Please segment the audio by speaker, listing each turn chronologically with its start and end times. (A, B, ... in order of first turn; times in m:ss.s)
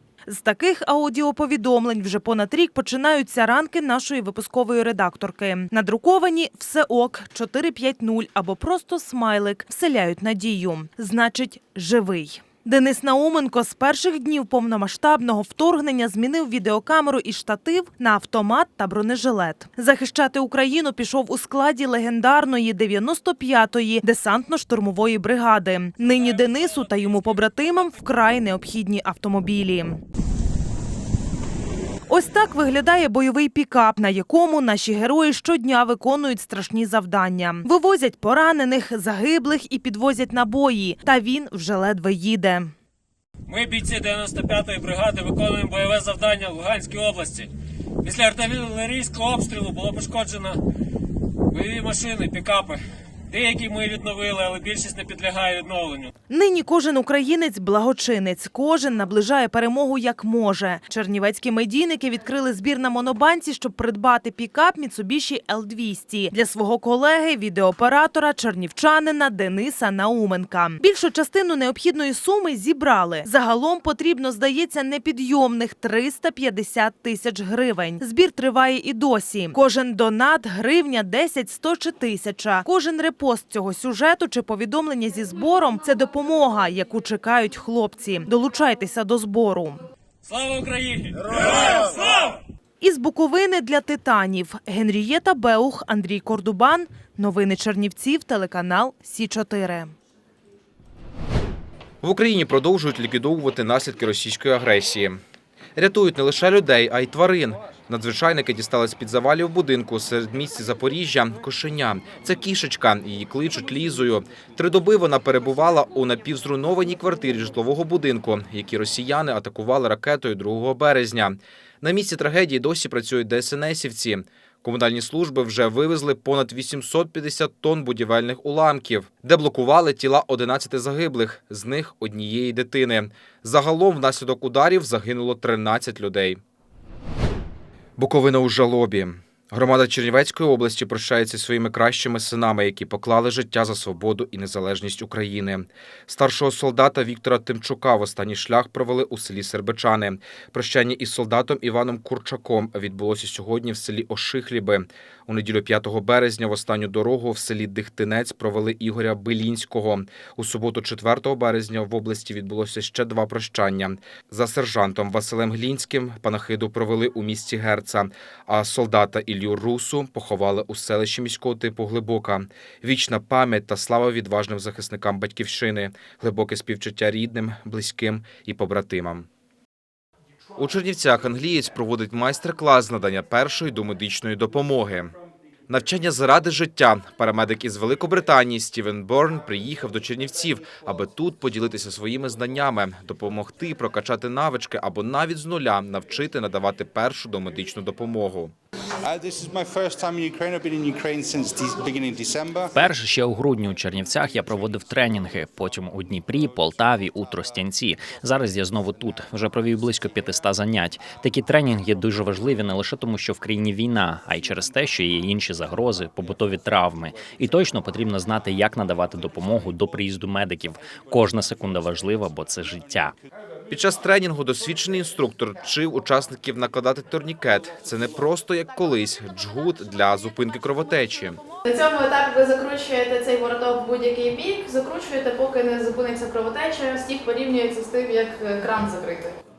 0:00.3-0:30.0 A
0:32.1-0:42.7 A
0:43.5-0:47.5 B
0:48.0-0:50.6 B
0:51.5-0:52.8 B
0:53.3-0:56.1 B
0:56.3-1:29.8 A
1:30.2-1:32.0 B
1:32.8-1:39.9 A
1:42.0-1:45.2 C
1:45.8-2:16.4 C
2:18.0-2:59.2 C
3:00.6-3:05.1 C
3:05.7-3:18.5 C
3:19.1-3:22.8 D
3:22.7-3:43.1 E
3:43.7-3:51.4 C
3:51.6-3:59.3 F